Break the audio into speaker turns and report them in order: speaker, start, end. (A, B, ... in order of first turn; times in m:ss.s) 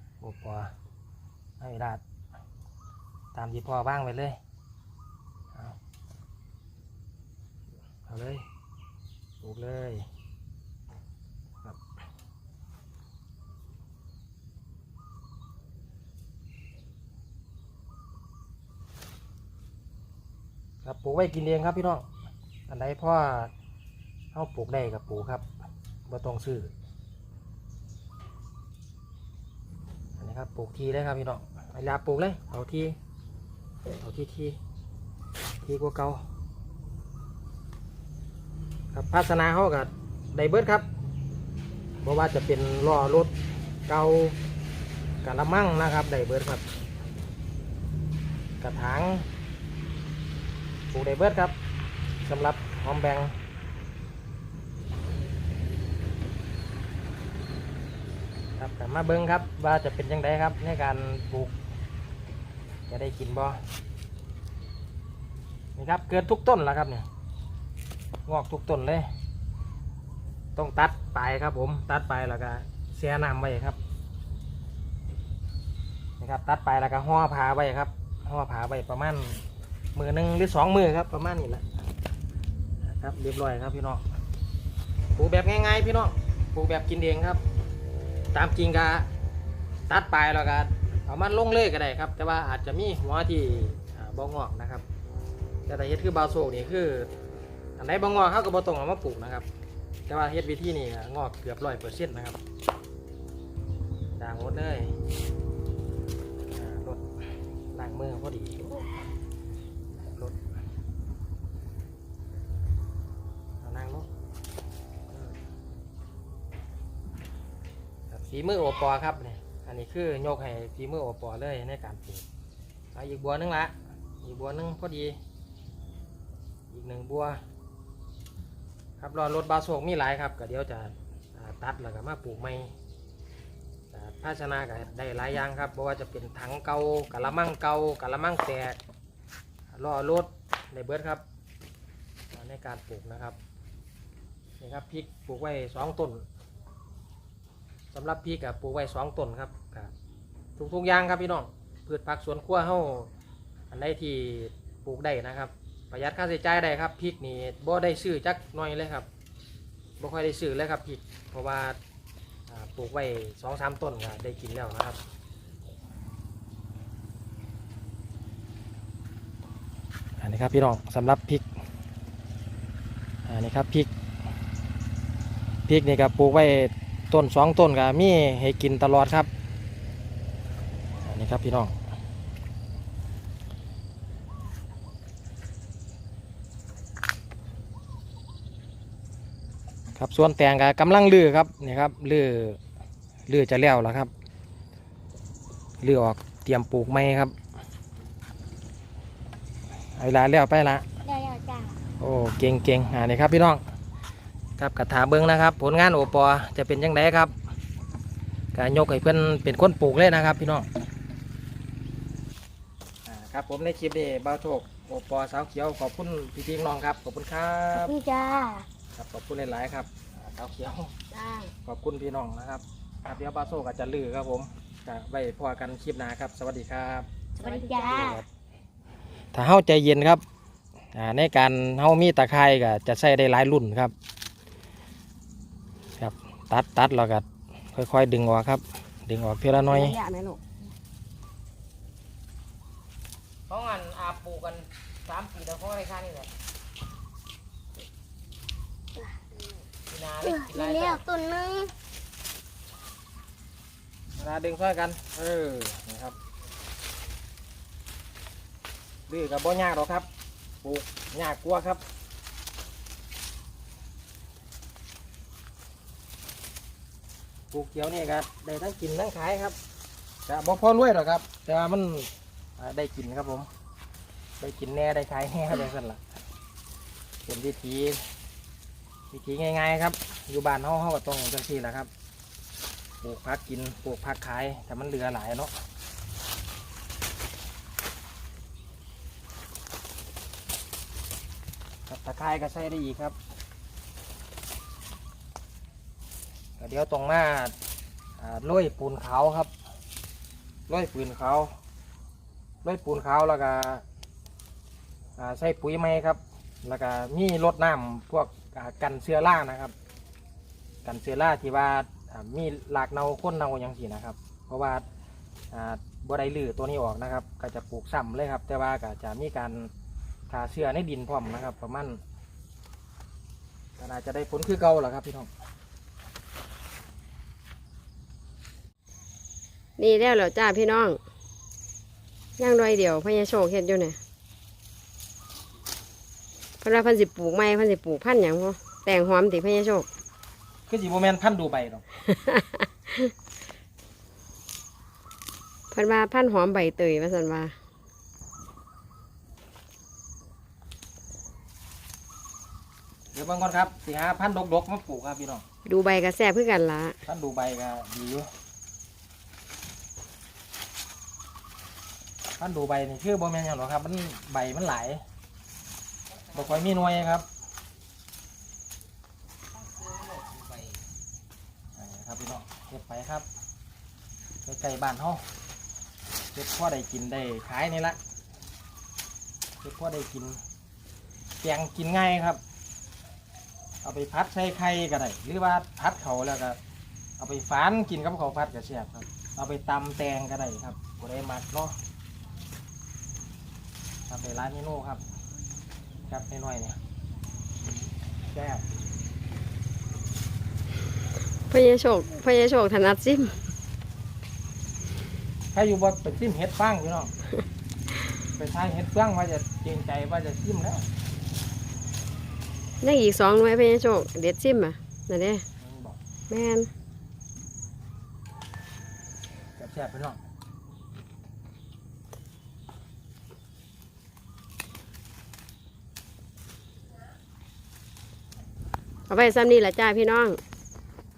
0:00.2-0:00.7 A
0:01.6-0:02.0 A
0:03.3-0:04.4 A
0:08.1-0:08.4 A
0:09.4-0:10.0 A
0:20.8-0:22.0 A
0:22.7-0:23.5 A
0:24.3-0:25.4 A
0:26.1-0:26.7 A
0:30.2-0:33.0 A
0:34.0-0:34.6 A
0:35.6-0:36.2 A
0:38.9-0:40.8 A
0:42.0-0:43.3 A
0:43.9-0:44.4 A
0:45.2-0:46.6 A
0:48.6-0:49.2 A
0:50.9-0:51.5 A
0:52.2-0:53.3 A
0:58.6-1:01.5 A
1:02.9-1:03.6 A
1:05.8-1:07.0 A
1:08.3-1:09.1 A
1:10.6-1:13.8 A
1:16.2-1:19.4 A
1:19.9-1:21.6 A
1:22.9-1:24.0 A
1:25.1-1:27.4 A
1:28.3-1:29.1 A
1:29.9-1:34.8 A
1:35.7-1:37.1 A
1:37.8-1:39.4 A
1:40.1-1:42.4 A
1:44.2-1:44.9 A
1:46.5-1:47.0 A
1:47.7-1:48.7 A
1:53.6-1:54.1 A
1:58.1-2:02.2 A
2:02.9-2:05.2 A
2:06.7-2:07.4 A
2:09.0-2:12.7 A
2:13.9-2:18.8 A
2:19.7-2:21.2 A
2:22.3-2:23.4 A
2:24.6-2:26.2 A
2:27.9-2:29.9 A
2:30.6-2:33.1 A
2:33.7-2:39.1 A
2:40.0-2:41.8 A
2:42.5-2:45.0 A
2:50.2-2:51.4 A
2:53.2-2:53.9 A
2:55.7-2:59.3 A
3:01.0-3:01.7 A
3:10.0-3:12.6 A
3:13.3-3:14.1 A
3:15.8-3:17.3 A
3:20.0-3:20.8 A
3:21.0-3:21.8 B
3:22.0-3:23.6 A
3:24.6-3:27.3 A
3:28.5-3:30.7 A
3:33.0-3:37.9 A
3:37.8-3:38.6 B
3:38.9-3:40.9 A
3:41.1-3:41.5 B
3:41.6-3:48.3 A
3:47.4-3:48.2 B
3:49.3-3:50.2 A
3:50.9-3:53.9 A
3:56.0-4:00.0 A
3:59.7-4:00.4 C
4:03.5-4:06.3 A
4:09.9-4:11.0 A
4:10.2-4:11.7 B
4:14.2-4:16.2 A
4:19.1-4:20.1 A
4:20.6-4:21.8 A
4:27.5-4:29.6 A
4:30.2-4:33.5 A
4:34.4-4:36.0 A
4:37.2-4:38.0 A
4:39.1-4:41.9 A
4:43.0-4:45.5 A
4:51.9-4:53.1 A
4:56.6-4:57.5 A
4:58.2-4:59.5 A
5:00.7-5:01.5 A
5:02.6-5:03.8 A
5:05.2-5:09.7 A
5:10.8-5:14.8 A
5:15.5-5:19.7 A
5:20.3-5:22.0 A
5:23.8-5:25.3 A
5:29.8-5:31.0 C
5:32.4-5:34.0 C
5:36.6-5:39.8 C
5:40.7-5:41.8 A
5:42.1-5:42.6 C
5:45.7-5:47.5 C
5:53.1-5:55.4 A
5:55.6-5:57.0 C
5:57.0-5:58.3 A
6:02.4-6:05.0 A
6:06.3-6:07.2 A
6:11.8-6:13.2 A
6:14.4-6:15.2 A
6:16.3-6:18.0 A
6:19.6-6:20.4 A
6:21.4-6:22.4 A
6:23.8-6:26.6 A
6:27.2-6:31.8 A
6:34.1-6:35.0 A
6:36.1-6:36.8 A
6:37.6-6:38.6 A
6:41.5-6:43.3 C
6:45.5-6:47.1 A
6:48.4-6:50.8 A
6:52.8-6:55.4 C
6:55.6-6:56.0 A
6:56.3-6:56.7 C
6:59.6-7:00.2 A
7:09.1-7:10.4 C